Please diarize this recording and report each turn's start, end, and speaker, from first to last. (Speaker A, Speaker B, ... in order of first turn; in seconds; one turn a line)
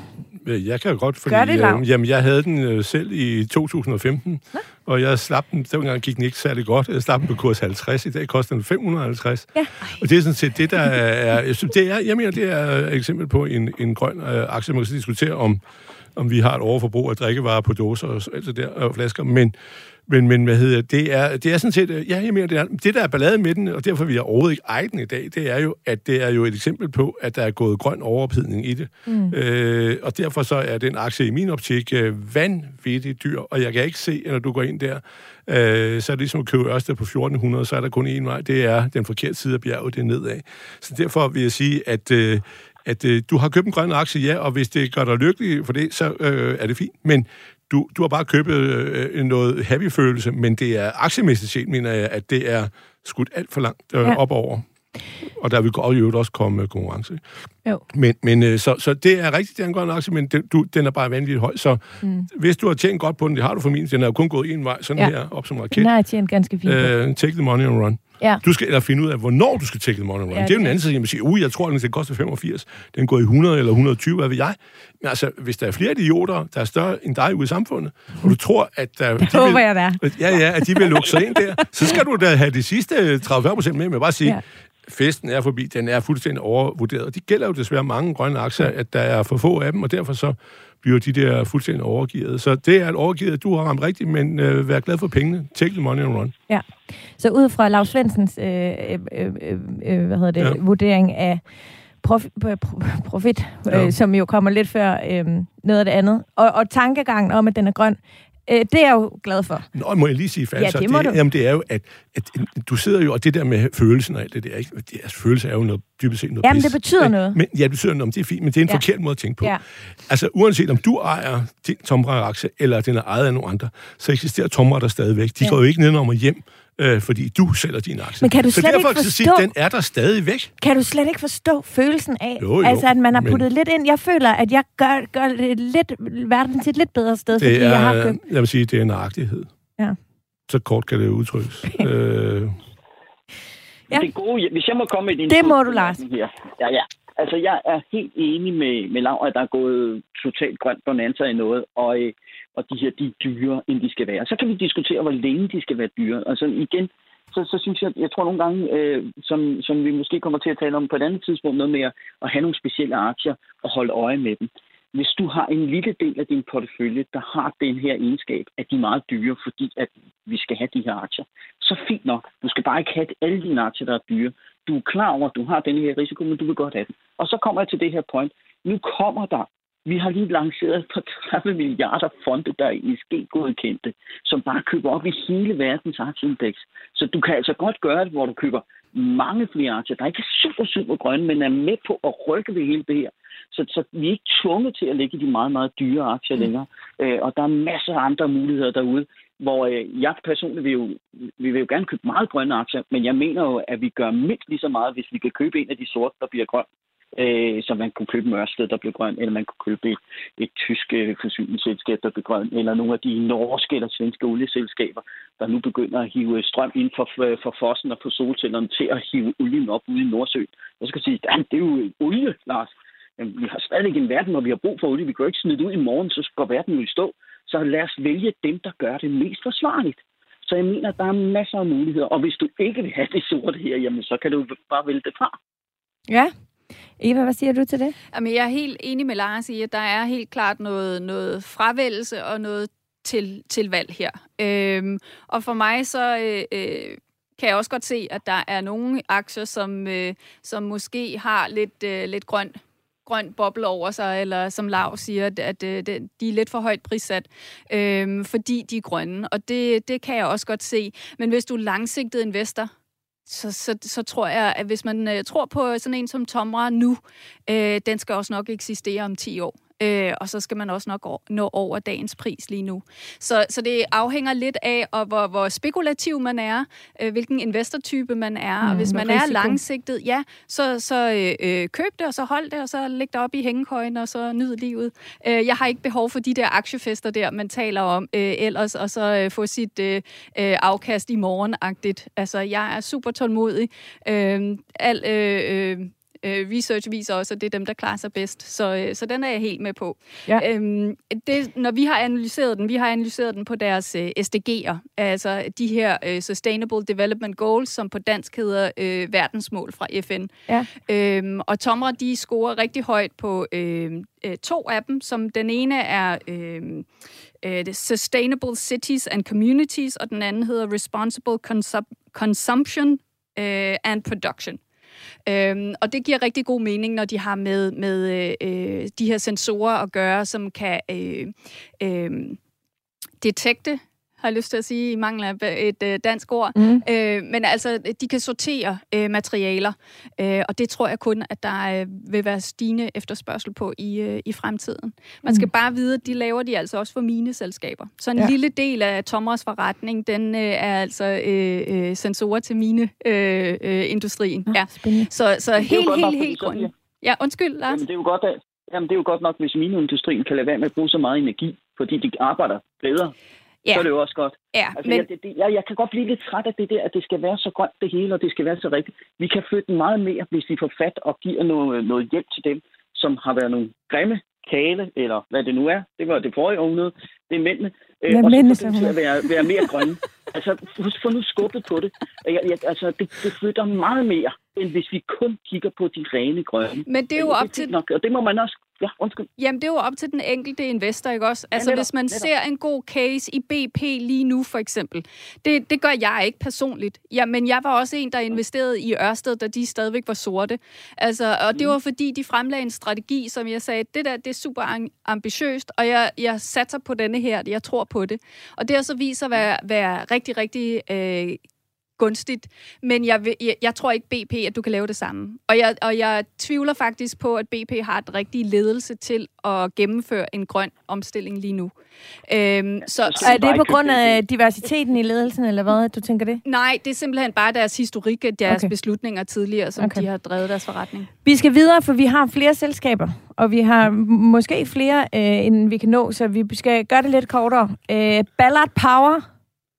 Speaker A: 0.4-15.6
Speaker B: 1.2-1.8
Speaker B: 9.5-10.0
Speaker A: 16.1-19.5
Speaker A: 20.1-54.6
Speaker B: 29.1-29.4
Speaker A: 55.2-57.2
Speaker A: 57.9-65.9
Speaker B: 62.0-62.3
Speaker B: 65.7-66.9
Speaker A: 66.6-96.3
Speaker B: 70.3-70.8
Speaker B: 79.2-81.9
Speaker B: 97.2-101.4
Speaker B: 102.0-109.7
Speaker A: 103.7-103.9
Speaker A: 109.7-130.5
Speaker B: 110.5-111.2
Speaker B: 116.4-117.4
Speaker B: 128.2-129.5
Speaker B: 130.6-138.2
Speaker A: 132.4-133.4
Speaker A: 137.3-139.5
Speaker A: 140.5-142.6
Speaker C: 143.9-235.3
Speaker B: 145.3-146.0
Speaker B: 236.1-236.3
Speaker B: 237.0-237.9
Speaker D: 238.1-262.7
Speaker D: 263.3-316.9
Speaker B: 278.6-279.6
Speaker D: 317.4-324.6
Speaker D: 325.2-332.4
Speaker D: 333.2-357.8
Speaker B: 336.6-336.8
Speaker B: 354.5-355.1
Speaker C: 355.6-356.7
Speaker C: 357.7-363.1
Speaker C: 363.7-389.3
Speaker D: 364.5-365.1
Speaker B: 378.1-379.6
Speaker D: 386.9-387.7
Speaker D: 389.4-411.4
Speaker C: 391.6-392.3
Speaker D: 412.0-421.7
Speaker D: 422.3-423.4
Speaker C: 423.0-424.2
Speaker B: 423.2-426.4
Speaker D: 426.4-431.1
Speaker B: 429.8-430.0
Speaker B: 431.2-439.2